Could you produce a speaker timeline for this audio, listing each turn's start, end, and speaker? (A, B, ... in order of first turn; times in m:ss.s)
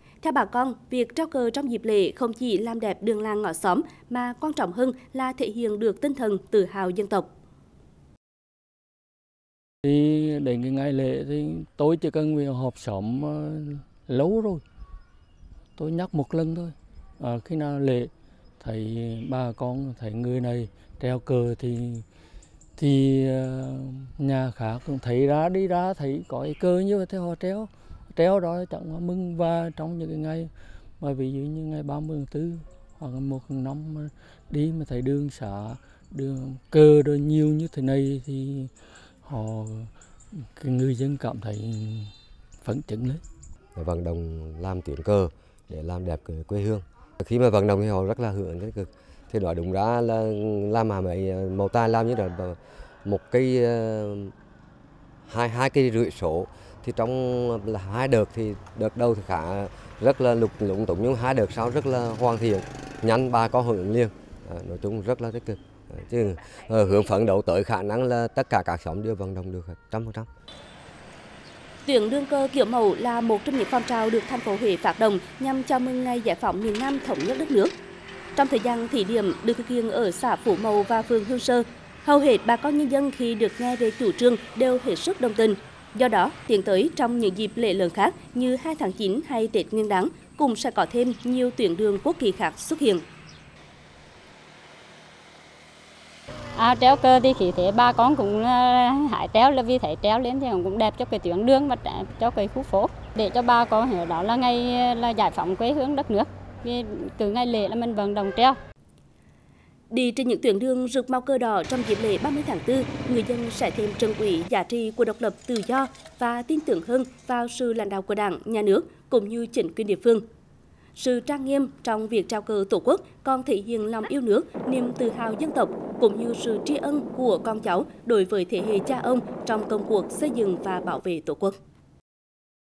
0:00.2-0:07.3 A
0:09.8-0:14.6 B
0:15.8-0:22.0 B
0:22.8-0:38.7 B
0:39.2-0:42.1 B
0:42.6-0:43.2 B
0:43.8-0:54.3 C
0:55.3-1:10.3 C
1:11.9-1:17.7 A
1:18.4-1:33.0 A
1:36.6-1:48.6 D
1:49.9-2:00.2 A
2:01.0-2:11.6 A